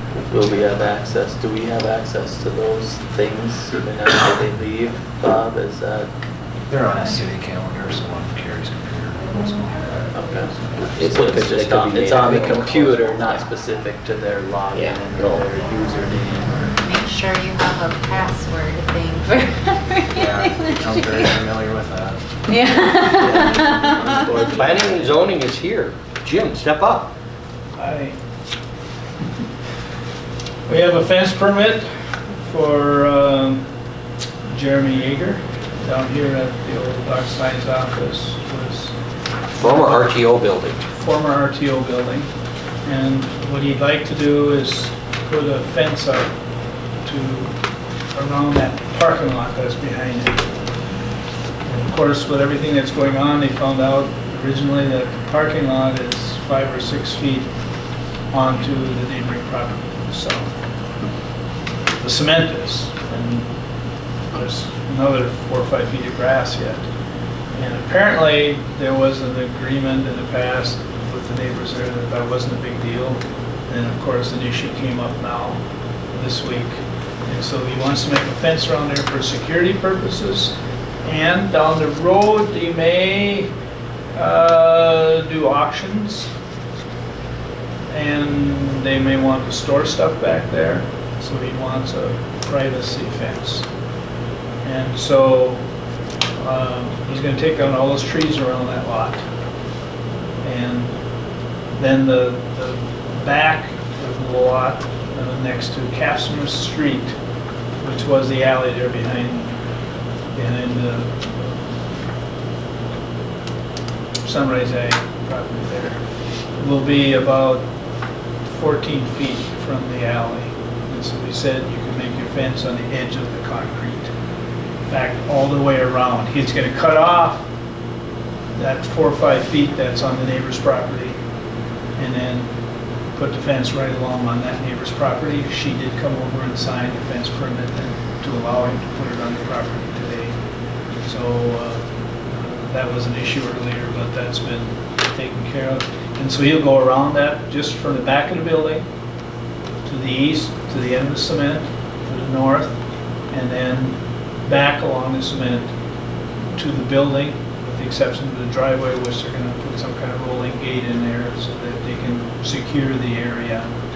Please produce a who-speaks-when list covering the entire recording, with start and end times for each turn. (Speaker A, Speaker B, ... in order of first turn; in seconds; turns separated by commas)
Speaker A: 0.3-6.1, Speaker B: 6.7-10.9, Speaker A: 10.1-16.7, Speaker C: 10.9-13.2, Speaker C: 14.7-15.5, Speaker D: 16.8-21.3, Speaker B: 20.1-22.2, Speaker D: 22.5-24.3, Speaker A: 23.2-25.1, Speaker C: 24.1-27.1, Speaker E: 27.8-28.2, Speaker E: 30.7-33.6, Speaker E: 34.5-39.0, Speaker C: 39.5-40.9, Speaker E: 39.6-40.1, Speaker E: 40.9-42.3, Speaker E: 42.9-46.3, Speaker E: 47.0-47.5, Speaker E: 48.1-50.5, Speaker E: 51.7-57.5, Speaker E: 58.3-60.5, Speaker E: 62.0-63.5, Speaker E: 64.3-66.9, Speaker E: 67.5-75.6, Speaker E: 76.1-83.5, Speaker E: 84.1-86.3, Speaker E: 87.9-93.7, Speaker E: 94.6-95.6, Speaker E: 96.4-99.2, Speaker E: 100.4-100.9, Speaker E: 101.8-107.2, Speaker E: 107.8-109.5, Speaker E: 110.3-111.6, Speaker E: 114.2-116.0, Speaker E: 116.5-117.7, Speaker E: 118.5-124.1, Speaker E: 124.9-127.5, Speaker E: 128.6-131.2, Speaker E: 132.0-132.5, Speaker E: 133.1-140.4, Speaker E: 141.0-148.8, Speaker E: 149.8-152.8, Speaker E: 153.3-155.7, Speaker E: 156.6-163.7